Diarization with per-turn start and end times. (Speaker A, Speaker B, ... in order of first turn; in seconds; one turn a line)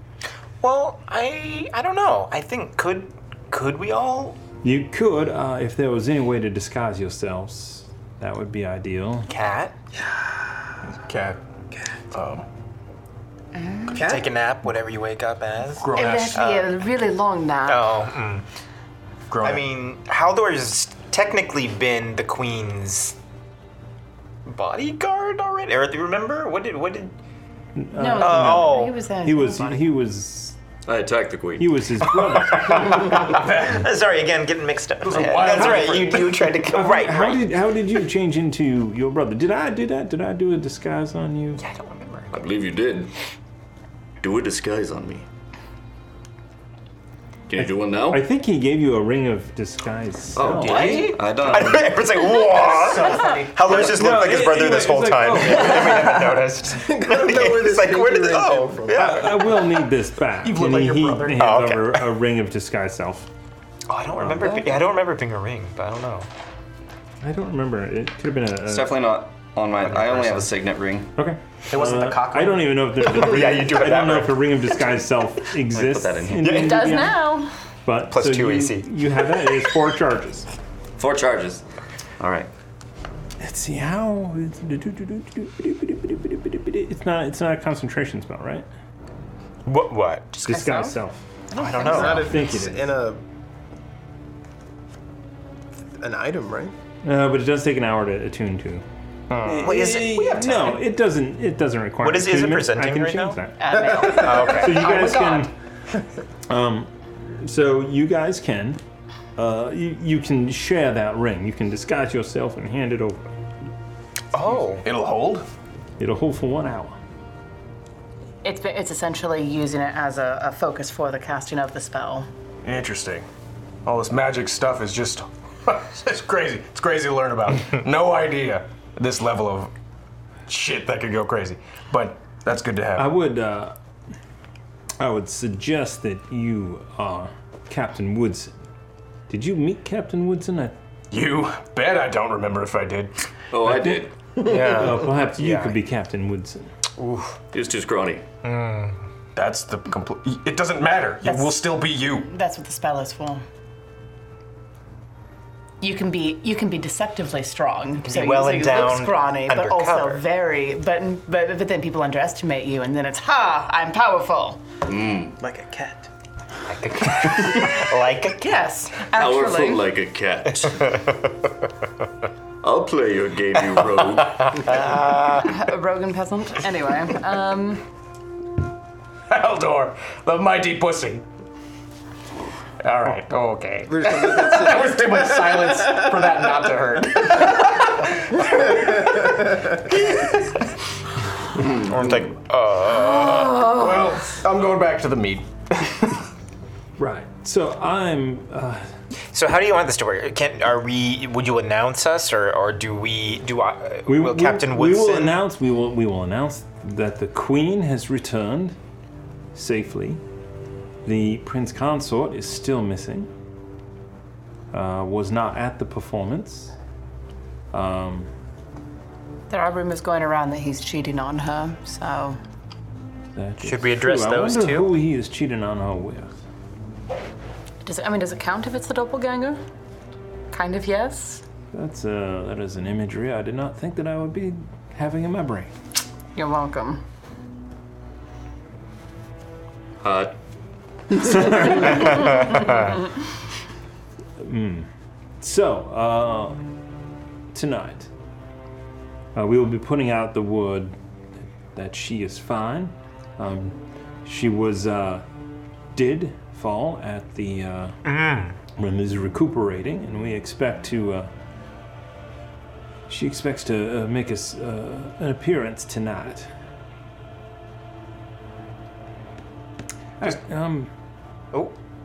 Speaker A: 0.6-4.4
Speaker B: 4.6-9.3
Speaker A: 9.3-9.7
Speaker C: 10.9-11.4
Speaker C: 12.1-12.4
Speaker D: 13.6-13.9
Speaker E: 13.9-14.3
Speaker A: 13.9-16.7
Speaker C: 15.8-16.4
Speaker D: 15.9-17.9
Speaker A: 17.7-18.4
Speaker C: 19.3-19.6
Speaker A: 19.4-23.2
Speaker A: 24.4-27.1
Speaker B: 27.8-30.6
Speaker D: 27.9-29.9
Speaker A: 28.2-29.0
Speaker F: 30.9-31.7
Speaker B: 31.6-33.2
Speaker A: 32.3-37.5
Speaker C: 33.1-33.9
Speaker C: 35.0-36.4
Speaker B: 35.5-41.6
Speaker A: 41.6-42.4
Speaker F: 42.3-43.1
Speaker F: 44.2-45.2
Speaker F: 47.5-48.2
Speaker B: 47.6-51.1
Speaker F: 50.4-52.3
Speaker A: 50.6-59.8
Speaker E: 52.9-53.3
Speaker C: 52.9-54.0
Speaker B: 53.6-56.2
Speaker E: 55.8-59.2
Speaker B: 58.9-63.3
Speaker C: 60.4-61.5
Speaker A: 61.3-62.0
Speaker A: 63.9-66.3
Speaker B: 64.2-64.7
Speaker B: 67.2-69.0
Speaker F: 68.7-71.1
Speaker B: 71.2-77.2
Speaker C: 71.7-72.8
Speaker A: 73.0-74.5
Speaker F: 75.7-76.7
Speaker A: 76.4-77.0
Speaker D: 76.5-77.5
Speaker B: 77.8-80.5
Speaker A: 78.1-78.9
Speaker F: 81.0-81.6
Speaker F: 82.2-82.5
Speaker B: 83.4-88.7
Speaker A: 89.7-90.4
Speaker D: 90.4-91.0
Speaker B: 90.4-91.3
Speaker D: 91.5-92.2
Speaker A: 91.5-92.2
Speaker E: 91.8-93.2
Speaker B: 91.8-92.9
Speaker E: 95.9-96.7
Speaker B: 97.0-98.8
Speaker A: 99.3-100.8
Speaker B: 99.4-105.5
Speaker A: 102.0-103.4
Speaker D: 103.6-105.4
Speaker E: 103.8-104.4
Speaker A: 104.0-105.2
Speaker B: 106.5-108.8
Speaker B: 109.4-113.3
Speaker A: 114.3-114.8
Speaker C: 114.8-115.5
Speaker B: 116.0-117.0
Speaker D: 118.4-122.3
Speaker C: 122.6-123.2
Speaker C: 123.8-129.7
Speaker C: 130.5-133.1
Speaker B: 132.9-133.8
Speaker B: 135.0-138.5
Speaker B: 139.3-140.8
Speaker C: 141.1-143.1
Speaker F: 143.5-144.1
Speaker B: 143.6-146.7
Speaker A: 144.4-145.8
Speaker A: 147.0-147.4
Speaker F: 147.5-148.2
Speaker A: 148.4-149.0
Speaker C: 149.3-152.3
Speaker D: 151.2-153.4
Speaker D: 155.8-164.6
Speaker A: 158.0-160.2
Speaker F: 164.8-165.4
Speaker C: 165.4-165.9
Speaker A: 166.7-168.5
Speaker D: 168.3-169.9
Speaker F: 169.1-171.0
Speaker A: 170.7-171.2
Speaker F: 172.6-174.8
Speaker A: 174.6-175.5
Speaker D: 175.3-177.8
Speaker C: 179.3-181.2
Speaker C: 182.8-190.6
Speaker E: 183.9-186.0
Speaker E: 188.7-189.7
Speaker A: 191.7-193.7
Speaker D: 193.2-194.1
Speaker C: 193.7-196.2
Speaker B: 197.0-198.9
Speaker A: 199.3-205.3
Speaker B: 204.1-208.8
Speaker B: 209.5-210.2
Speaker B: 211.0-213.3
Speaker B: 214.7-216.7
Speaker B: 217.7-218.3
Speaker D: 219.5-222.4
Speaker B: 223.3-226.3
Speaker A: 223.6-224.9
Speaker D: 227.8-229.6
Speaker D: 230.5-231.4
Speaker B: 231.7-235.7
Speaker D: 236.3-237.0
Speaker F: 240.0-240.3
Speaker F: 241.3-242.4
Speaker B: 241.3-241.9
Speaker A: 242.1-242.8
Speaker B: 244.4-244.9
Speaker B: 245.4-246.6
Speaker B: 247.5-248.1
Speaker B: 249.3-250.9
Speaker B: 251.7-255.2
Speaker B: 255.9-258.0
Speaker A: 258.0-258.6
Speaker B: 258.8-261.3
Speaker B: 263.1-266.5
Speaker B: 270.2-270.9